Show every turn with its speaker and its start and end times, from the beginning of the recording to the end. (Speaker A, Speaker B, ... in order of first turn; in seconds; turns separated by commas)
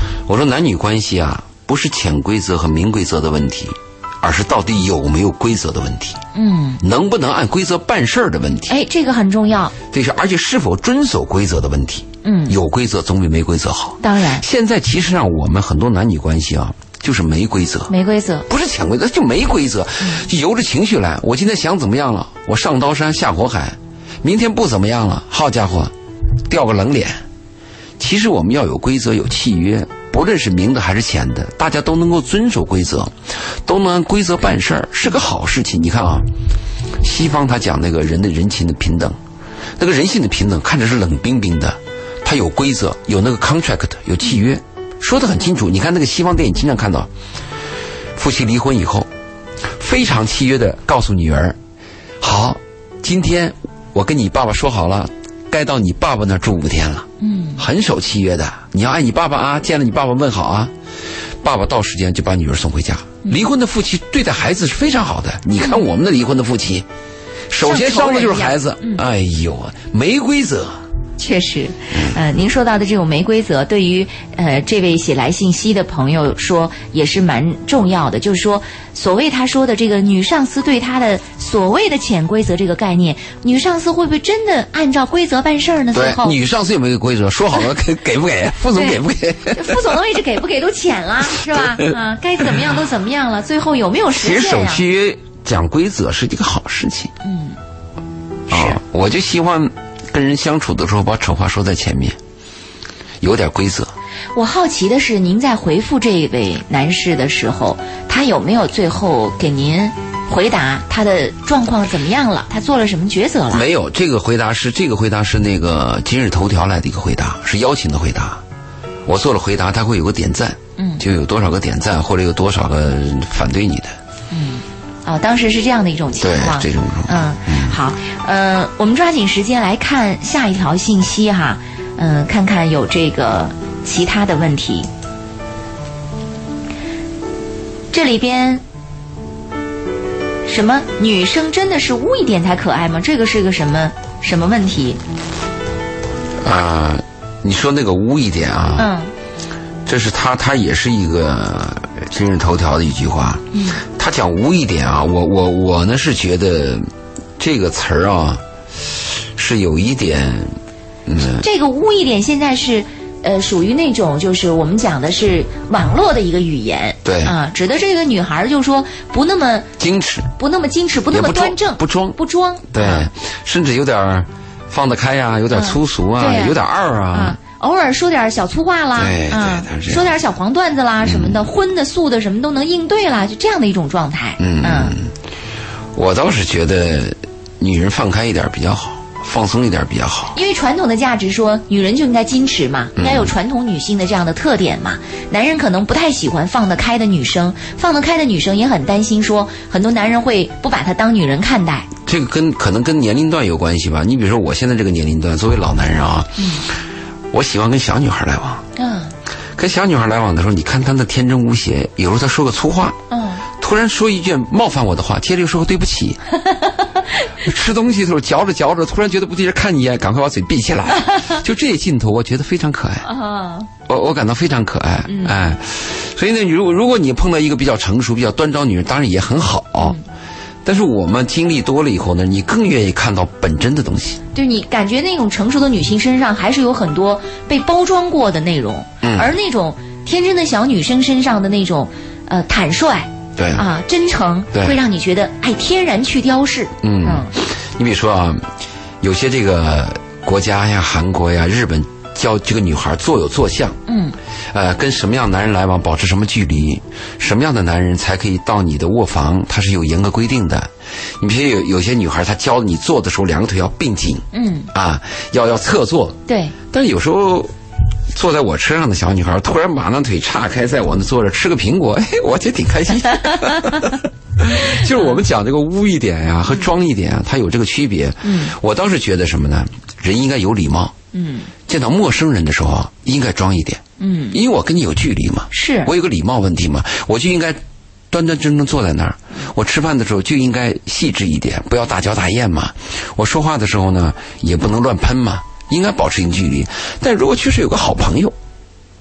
Speaker A: 0.2-6.2, Speaker B: 6.3-6.8, Speaker A: 6.8-8.7, Speaker B: 8.7-9.7, Speaker A: 9.9-17.9, Speaker B: 12.2-12.6, Speaker B: 14.0-14.4, Speaker B: 17.9-18.4, Speaker A: 18.5-25.9, Speaker A: 26.5-27.2, Speaker A: 28.0-36.3, Speaker A: 37.0-39.2, Speaker A: 39.8-47.1, Speaker A: 48.1-49.1, Speaker A: 49.7-51.6, Speaker A: 52.2-60.7, Speaker B: 57.2-57.6, Speaker A: 61.4-66.8, Speaker B: 65.6-65.9, Speaker A: 67.5-70.8, Speaker B: 67.6-69.0, Speaker B: 71.2-86.4, Speaker A: 85.9-90.0, Speaker B: 88.7-89.0, Speaker B: 89.5-94.8, Speaker A: 91.3-91.9, Speaker A: 94.2-97.1, Speaker B: 97.2-97.6, Speaker B: 98.5-98.8, Speaker A: 98.5-102.2, Speaker A: 103.2-103.9, Speaker B: 104.3-113.7, Speaker A: 113.5-118.4, Speaker A: 119.0-123.9, Speaker B: 120.8-121.0, Speaker B: 124.3-134.9, Speaker A: 126.2-127.8, Speaker B: 137.9-138.6, Speaker B: 140.4-145.0, Speaker A: 146.4-148.9, Speaker B: 148.8-149.1, Speaker A: 149.8-160.5, Speaker B: 153.5-153.8, Speaker A: 161.1-161.4, Speaker B: 161.2-169.7, Speaker A: 167.0-167.3, Speaker A: 169.8-170.3, Speaker B: 170.4-173.1, Speaker A: 171.1-172.2, Speaker A: 172.7-177.4, Speaker B: 175.5-176.6, Speaker B: 177.1-184.9, Speaker A: 179.0-180.1, Speaker A: 181.0-181.4, Speaker A: 184.4-185.1, Speaker A: 185.9-190.3, Speaker B: 190.3-201.9, Speaker A: 192.9-193.3, Speaker A: 202.1-206.4, Speaker B: 206.4-206.6, Speaker A: 207.3-208.6, Speaker B: 208.8-209.1, Speaker A: 209.6-213.0, Speaker B: 213.1-213.4, Speaker A: 213.5-216.2, Speaker A: 217.4-223.1, Speaker B: 223.0-223.7, Speaker A: 223.9-230.0, Speaker B: 225.1-225.3, Speaker A: 230.6-234.2, Speaker B: 234.3-247.3, Speaker A: 239.0-239.3, Speaker A: 243.3-243.7, Speaker A: 246.8-248.5, Speaker A: 249.0-253.8, Speaker B: 253.9-254.2, Speaker A: 254.5-267.5, Speaker B: 264.3-264.7, Speaker B: 266.3-266.5, Speaker A: 268.1-280.9, Speaker B: 278.2-278.5, Speaker B: 281.1-281.5, Speaker A: 281.6-298.3, Speaker B: 284.0-284.4, Speaker B: 285.5-285.9